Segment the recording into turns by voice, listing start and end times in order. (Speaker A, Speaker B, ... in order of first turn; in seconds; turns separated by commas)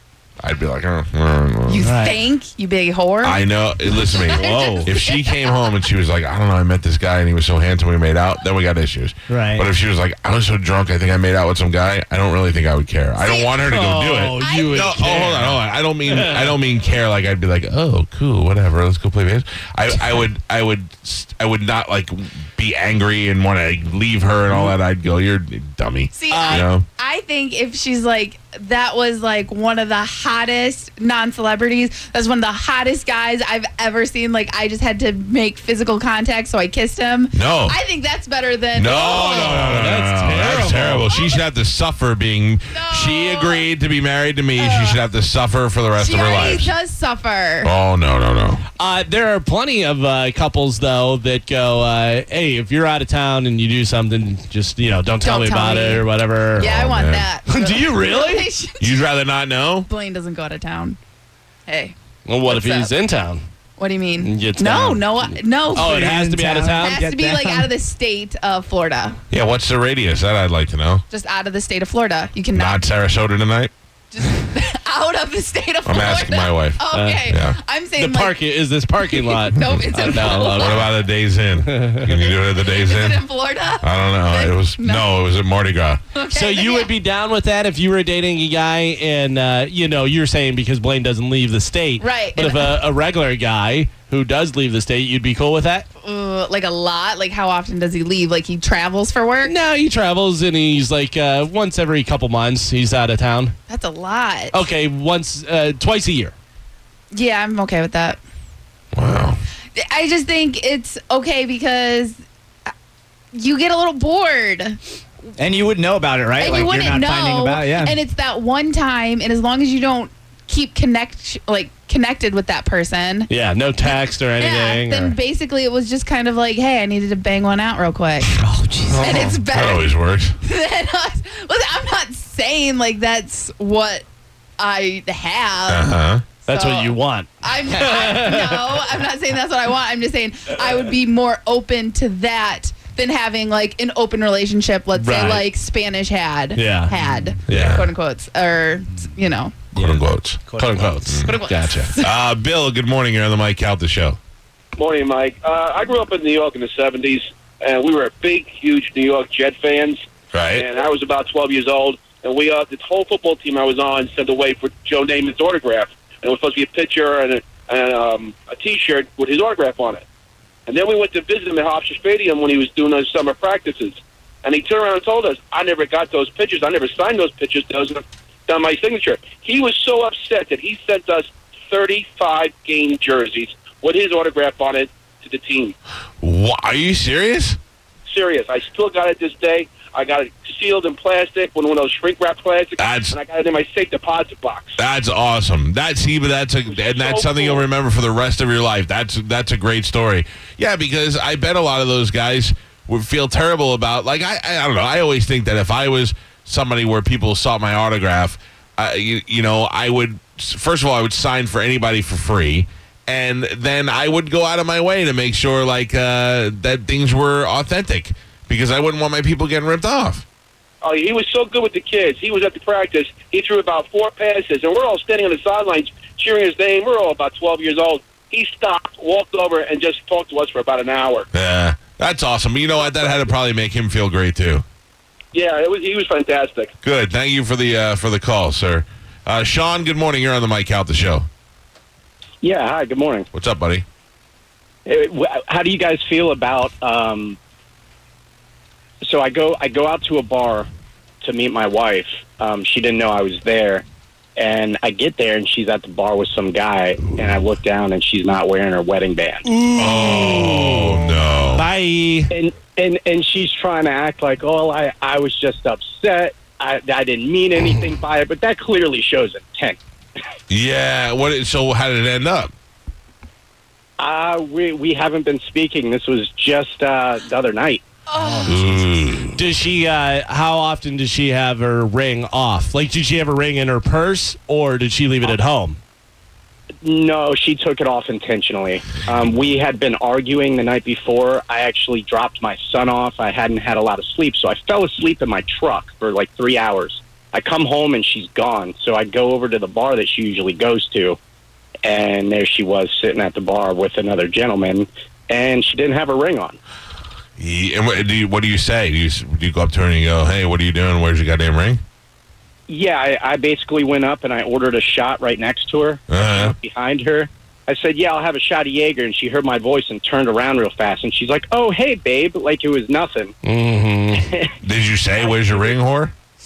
Speaker A: 0.4-1.9, Speaker B: 1.7-3.4, Speaker C: 1.8-2.2, Speaker A: 3.2-26.9, Speaker B: 4.4-5.3, Speaker C: 9.3-9.7, Speaker D: 13.6-16.6, Speaker B: 14.4-14.8, Speaker D: 24.5-24.8, Speaker B: 26.1-39.7, Speaker D: 26.3-26.7, Speaker A: 37.3-37.8, Speaker A: 38.7-46.7, Speaker D: 39.1-41.1, Speaker B: 41.1-41.4, Speaker B: 42.7-43.7, Speaker B: 44.6-45.0, Speaker B: 46.0-47.7, Speaker A: 47.6-48.6, Speaker D: 48.8-56.8, Speaker B: 55.2-56.0, Speaker A: 56.6-57.3, Speaker B: 56.6-58.8, Speaker D: 57.5-58.5, Speaker A: 58.8-59.9, Speaker B: 59.9-61.0, Speaker B: 61.7-62.0, Speaker D: 62.3-63.4, Speaker B: 62.5-62.9, Speaker B: 63.8-66.1, Speaker D: 64.2-67.0, Speaker C: 66.1-67.8, Speaker B: 66.8-69.2, Speaker A: 69.3-71.0, Speaker B: 71.1-72.8, Speaker A: 72.5-73.7, Speaker B: 74.1-78.4, Speaker A: 75.8-77.6, Speaker D: 76.9-77.3, Speaker D: 78.0-80.9, Speaker B: 79.3-80.7, Speaker A: 80.5-83.2, Speaker D: 81.7-82.0, Speaker B: 82.4-85.1, Speaker A: 83.8-86.0, Speaker B: 86.1-86.9, Speaker D: 86.3-95.9, Speaker B: 92.0-92.7, Speaker B: 96.0-99.5, Speaker D: 99.4-103.6, Speaker B: 103.7-104.5, Speaker D: 104.5-106.3, Speaker B: 107.1-108.2, Speaker A: 108.9-109.4, Speaker B: 109.8-112.2, Speaker B: 113.3-114.8, Speaker C: 115.4-118.0, Speaker B: 116.4-123.3, Speaker D: 123.3-125.2, Speaker B: 123.8-128.4, Speaker C: 128.4-129.0, Speaker D: 128.9-129.3, Speaker B: 129.0-129.9, Speaker A: 129.0-130.4, Speaker B: 130.4-134.1, Speaker B: 134.6-136.0, Speaker A: 135.7-136.3, Speaker D: 136.4-138.8, Speaker B: 136.5-149.7, Speaker D: 144.9-145.5, Speaker D: 146.6-147.0, Speaker D: 147.5-147.8, Speaker A: 147.5-147.9, Speaker C: 149.7-151.1, Speaker A: 149.8-151.4, Speaker D: 150.6-151.9, Speaker B: 151.2-152.1, Speaker A: 152.0-154.2, Speaker E: 154.8-160.0, Speaker A: 160.3-160.7, Speaker E: 160.5-170.0, Speaker E: 170.7-185.8, Speaker A: 186.2-187.6, Speaker E: 188.1-194.8, Speaker A: 192.8-193.2, Speaker A: 194.8-220.2, Speaker E: 196.7-197.7, Speaker E: 220.8-231.3, Speaker A: 231.3-234.6, Speaker E: 235.3-236.7, Speaker A: 236.8-241.3, Speaker F: 242.4-243.3, Speaker A: 243.3-243.8, Speaker F: 244.9-247.4, Speaker F: 249.0-250.7, Speaker F: 251.2-253.8, Speaker F: 254.4-259.4, Speaker D: 259.5-262.3, Speaker A: 259.8-261.7, Speaker F: 262.3-269.8, Speaker A: 270.5-272.5, Speaker F: 274.0-277.8, Speaker B: 278.1-278.6, Speaker A: 278.5-279.4, Speaker D: 279.3-285.8, Speaker F: 286.8-301.2, Speaker F: 301.8-306.6, Speaker A: 307.4-311.8, Speaker F: 312.7-323.3, Speaker A: 316.1-316.6, Speaker D: 323.4-324.3, Speaker F: 324.1-324.5, Speaker A: 324.6-326.1, Speaker F: 325.2-325.8